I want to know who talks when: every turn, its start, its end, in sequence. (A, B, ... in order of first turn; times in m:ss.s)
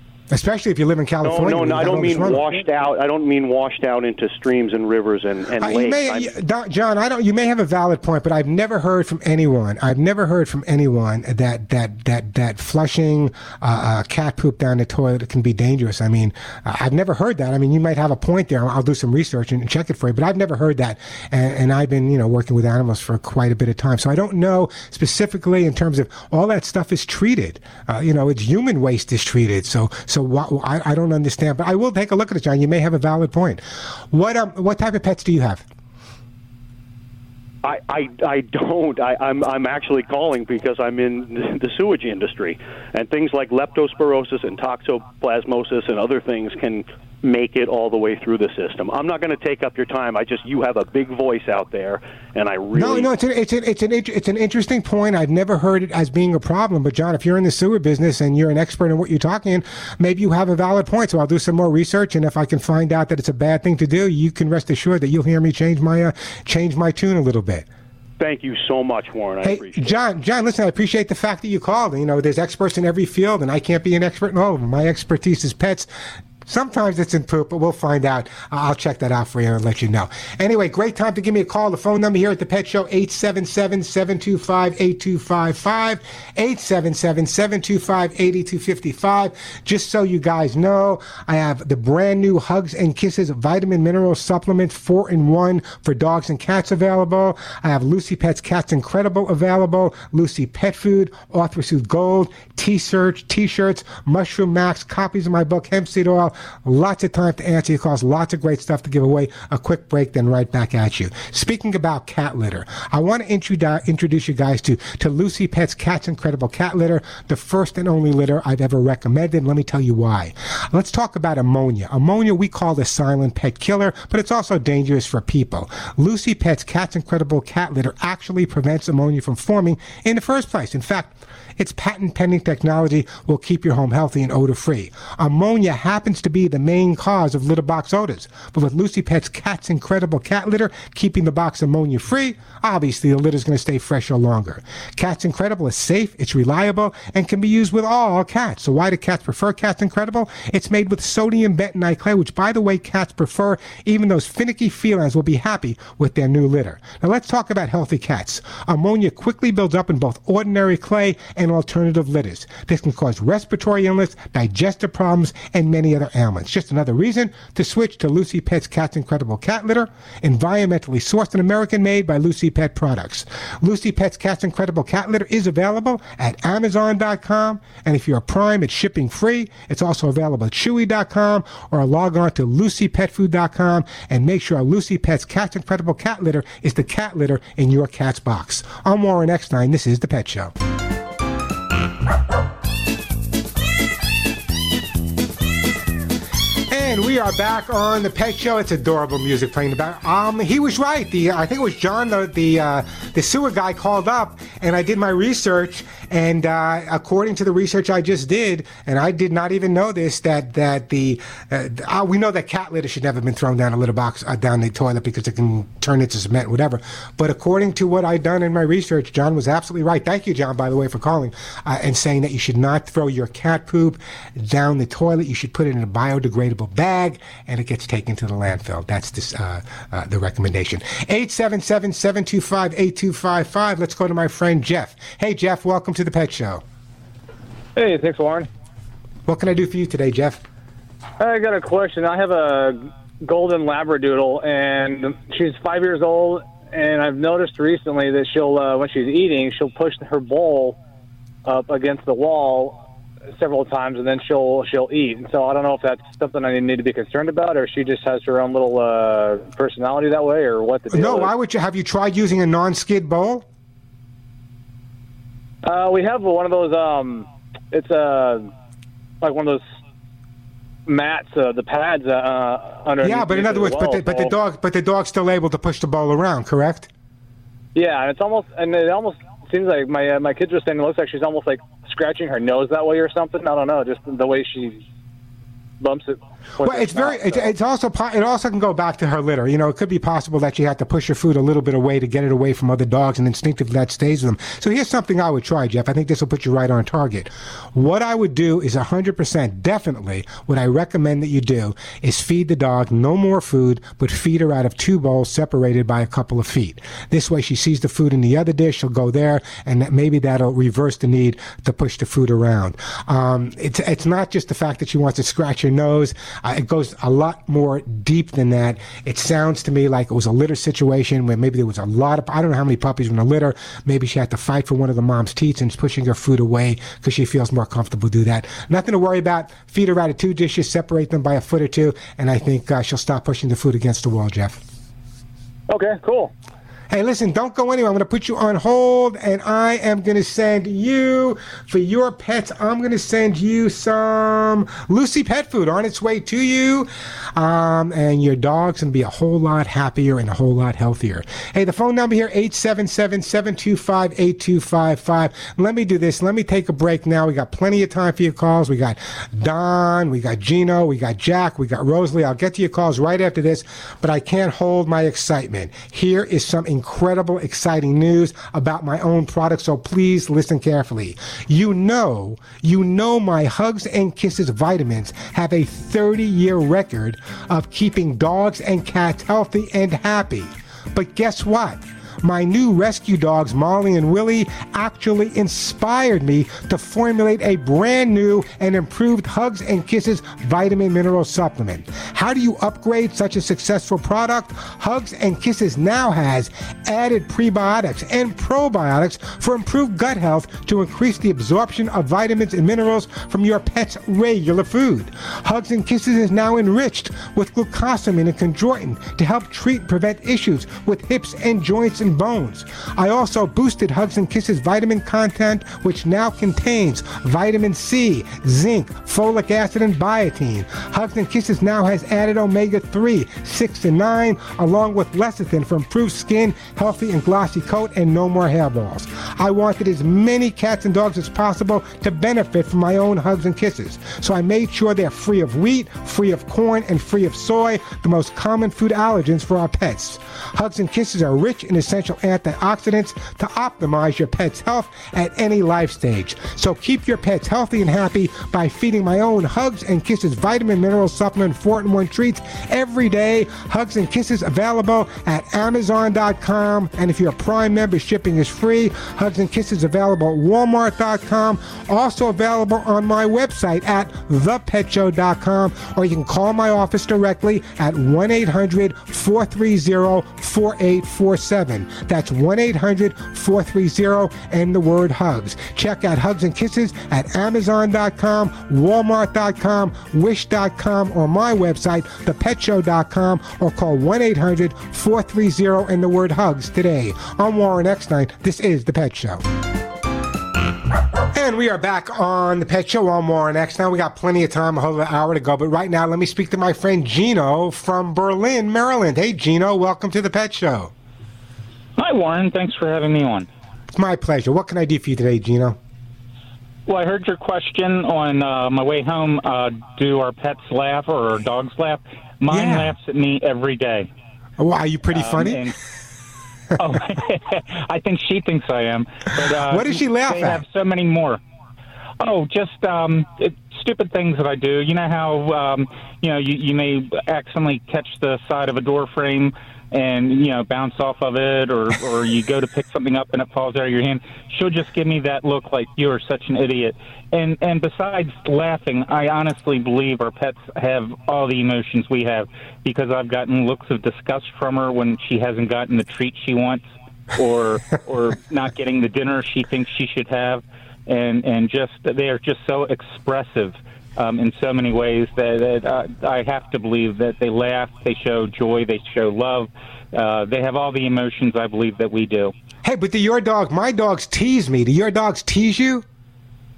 0:00.3-0:02.6 A
0:01.2-0:06.3 B
0:05.6-0:35.6 A
0:37.6-0:53.1 B
0:52.8-1:07.7 A
1:08.2-1:10.0 B
1:09.4-1:15.9 A
1:16.4-3:10.5 A
3:16.7-3:56.6 A
3:57.8-3:58.5 C
3:59.3-4:00.4 A
4:01.2-4:10.8 C
4:11.4-4:12.8 C
4:13.3-4:21.3 C
4:20.9-4:23.5 A
4:25.6-4:28.5 C
4:29.2-4:29.6 C
4:30.9-4:34.4 C
4:33.0-4:36.9 A
4:37.7-4:44.8 C
4:45.8-4:47.5 C
4:46.6-5:34.6 A
5:35.7-5:36.3 C
5:36.9-8:09.4 A
8:11.3-8:20.9 A
8:22.0-8:23.5 D
8:23.9-8:25.8 A
8:26.9-8:34.1 D
8:32.5-8:33.0 A
8:34.6-8:35.7 A
8:35.1-8:35.8 D
8:36.8-8:41.4 D
8:39.5-8:40.6 A
8:42.2-9:22.5 D
9:22.8-9:26.0 A